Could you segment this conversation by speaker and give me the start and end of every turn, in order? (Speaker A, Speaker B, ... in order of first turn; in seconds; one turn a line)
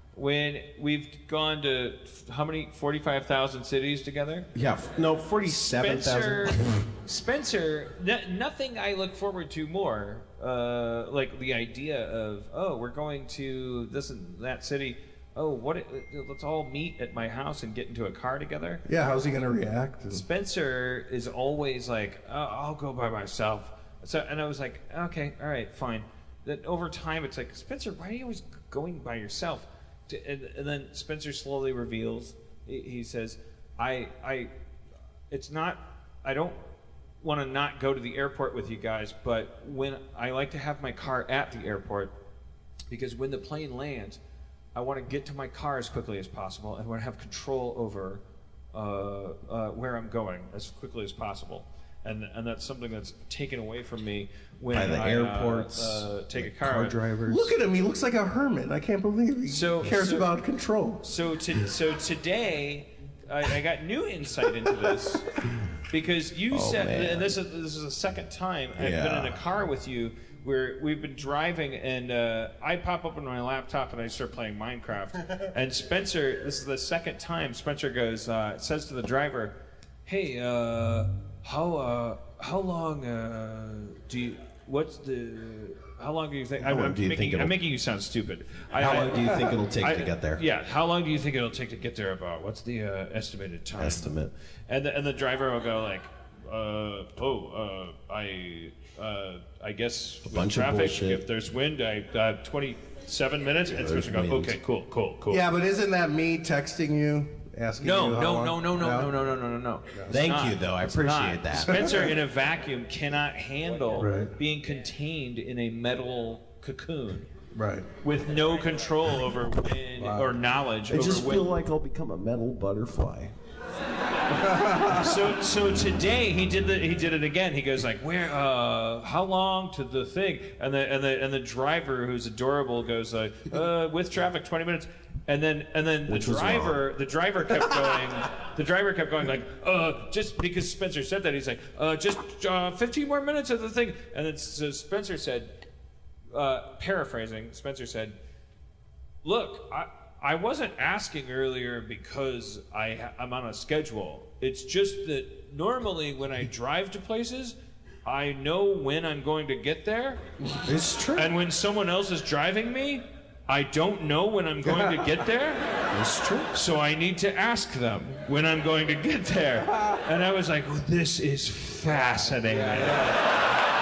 Speaker A: 0.1-4.5
Speaker B: 4.5-6.8
Speaker A: 5.5-18.8
Speaker C: 18.9-20.2
Speaker A: 20.1-34.5
Speaker A: 35.3-36.6
Speaker A: 37.2-42.1
Speaker A: 42.9-44.2
Speaker A: 44.8-48.2
Speaker A: 48.7-57.0
Speaker B: 54.7-57.5
Speaker C: 57.3-61.0
Speaker A: 59.5-60.3
Speaker A: 61.0-65.3
Speaker A: 65.9-94.1
Speaker B: 66.5-67.4
Speaker B: 68.8-69.4
Speaker B: 86.6-87.5
Speaker B: 88.8-90.4
Speaker B: 93.8-94.3
Speaker A: 94.7-105.4
Speaker B: 100.3-101.2
Speaker B: 103.7-104.6
Speaker C: 105.3-109.1
Speaker A: 107.8-117.3
Speaker B: 110.1-112.1
Speaker C: 114.0-114.3
Speaker C: 117.5-117.9
Speaker A: 118.0-121.5
Speaker C: 120.0-120.4
Speaker B: 120.9-123.3
Speaker C: 124.4-125.2
Speaker A: 124.9-145.6
Speaker B: 136.1-136.8
Speaker A: 146.3-148.2
Speaker A: 149.2-160.2
Speaker B: 160.7-161.3
Speaker A: 161.2-165.7
Speaker B: 165.9-166.5
Speaker A: 166.5-173.2